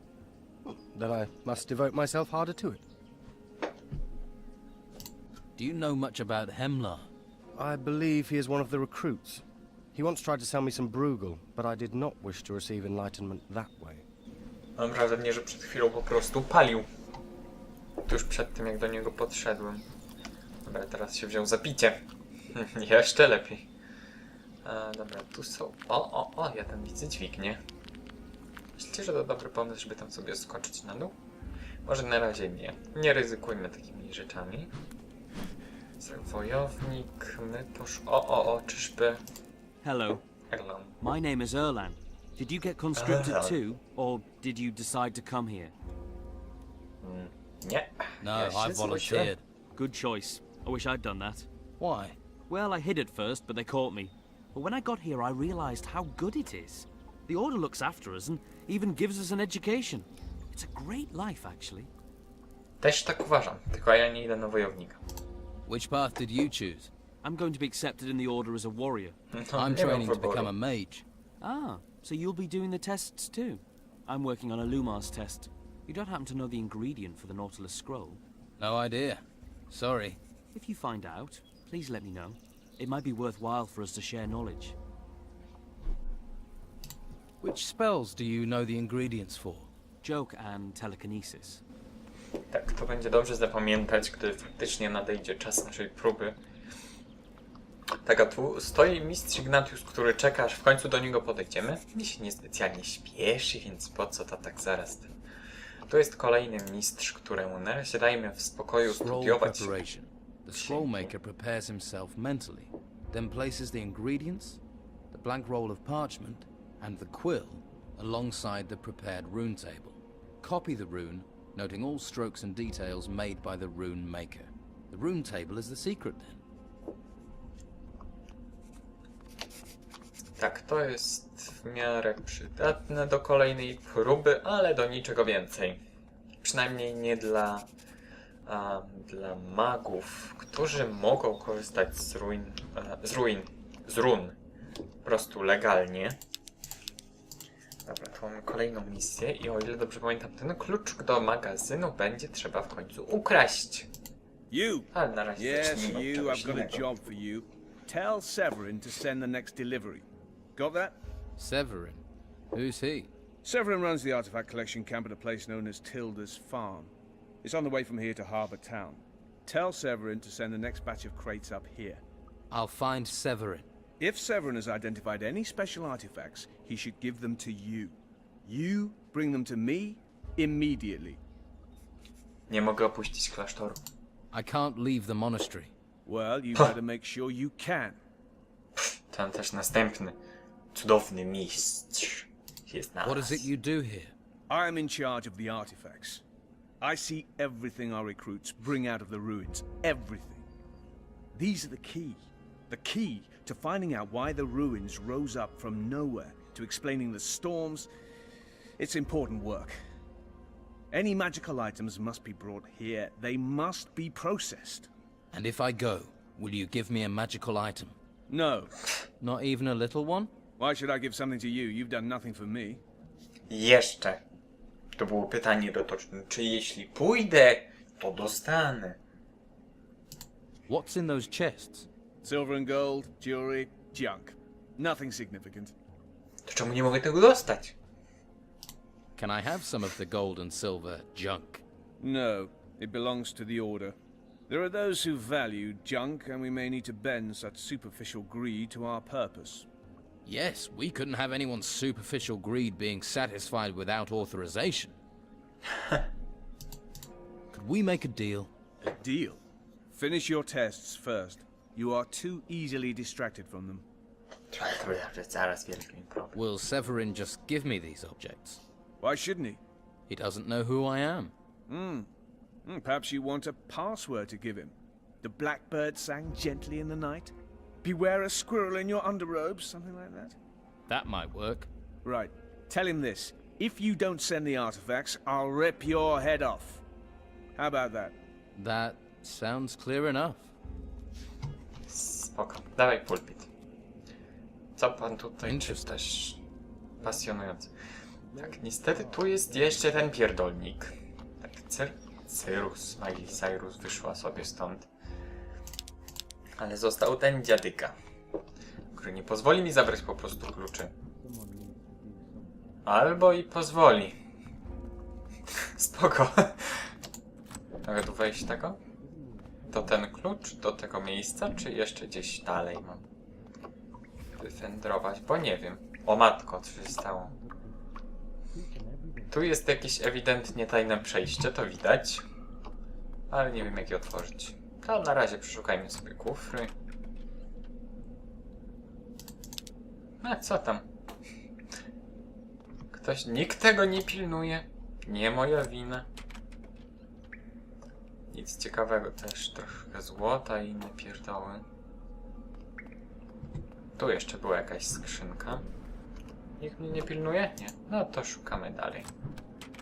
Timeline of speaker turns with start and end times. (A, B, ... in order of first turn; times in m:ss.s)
0:00.6-0:02.8 A
0:05.6-0:07.1 B
0:07.6-0:14.0 A
0:14.8-0:16.9 C
0:18.1-0:19.8 C
0:20.6-0:22.0 C
0:22.5-0:23.7 C
0:24.6-0:27.6 C
0:28.8-0:31.2 C
0:31.8-0:34.7 C
0:36.0-0:39.2 C
0:39.8-0:40.2 D
0:40.5-0:41.0 C
0:41.0-0:45.7 D
0:43.0-0:43.6 C
0:47.0-0:49.3 C
0:48.2-0:49.4 B
0:49.8-0:51.5 D
0:51.8-0:52.2 B
0:52.5-1:01.9 D
1:02.8-1:05.0 C
1:05.7-1:06.9 B
1:07.2-1:09.2 D
1:09.3-1:10.5 C
1:09.6-1:11.0 B
1:11.4-1:18.2 D
1:18.6-1:20.2 B
1:20.5-1:24.8 D
1:27.4-1:29.7 B
1:30.0-1:31.6 D
1:32.5-1:36.4 C
1:38.0-1:45.1 C
1:45.9-1:49.9 C
1:48.8-1:54.6 B
1:50.5-1:51.1 C
1:55.1-2:06.4 B
2:10.4-2:15.8 C
2:16.4-2:17.7 C
2:18.5-2:24.4 C
2:25.0-2:26.2 C
2:27.9-2:33.9 C
2:34.5-2:41.0 E
2:34.9-2:36.9 C
2:41.4-2:43.1 B
2:43.4-2:46.9 E
2:47.4-2:52.0 E
2:52.5-2:53.7 B
2:54.0-3:01.2 E
3:02.5-3:03.8 C
3:04.3-3:05.7 B
3:06.1-3:08.0 E
3:08.8-3:10.2 C
3:10.7-3:13.5 C
3:13.0-3:14.1 B
3:14.5-3:16.2 E
3:16.8-3:20.5 E
3:21.3-3:27.9 E
3:28.8-3:29.8 E
3:30.9-3:34.9 E
3:35.3-3:38.0 B
3:38.3-3:38.7 E
3:39.2-3:40.3 B
3:40.6-3:42.8 E
3:43.5-3:44.2 C
3:45.0-3:49.0 C
3:50.7-3:51.9 B
3:52.2-3:55.8 E
3:56.5-3:57.7 C
3:59.2-4:01.6 B
4:02.0-4:04.0 E
4:04.5-4:09.7 E
4:10.2-4:15.0 B
4:17.5-4:18.5 B
4:18.8-4:23.9 E
4:24.5-4:26.4 C
4:26.4-4:28.6 B
4:29.0-4:29.6 E
4:30.1-4:31.3 B
4:31.7-4:32.1 E
4:32.6-4:40.4 E
4:40.9-4:41.7 B
4:42.0-4:46.8 E
4:47.6-4:48.2 E
4:48.6-4:50.5 B
4:51.9-4:53.5 C
4:54.8-4:56.4 C
4:55.5-4:55.9 B
4:57.0-4:57.7 C
4:58.4-5:04.9 C
5:06.6-5:08.0 C
5:08.9-5:10.9 C
5:12.8-5:14.2 C
5:15.6-5:16.9 C
5:17.8-5:18.8 C
5:19.7-5:23.1 C
5:24.4-5:27.3 C
5:29.3-5:32.2 C
5:33.3-5:36.7 C
5:40.2-5:40.8 C
5:42.9-5:46.1 C
5:48.3-5:51.6 C
5:54.0-5:55.6 C
5:56.6-5:59.1 C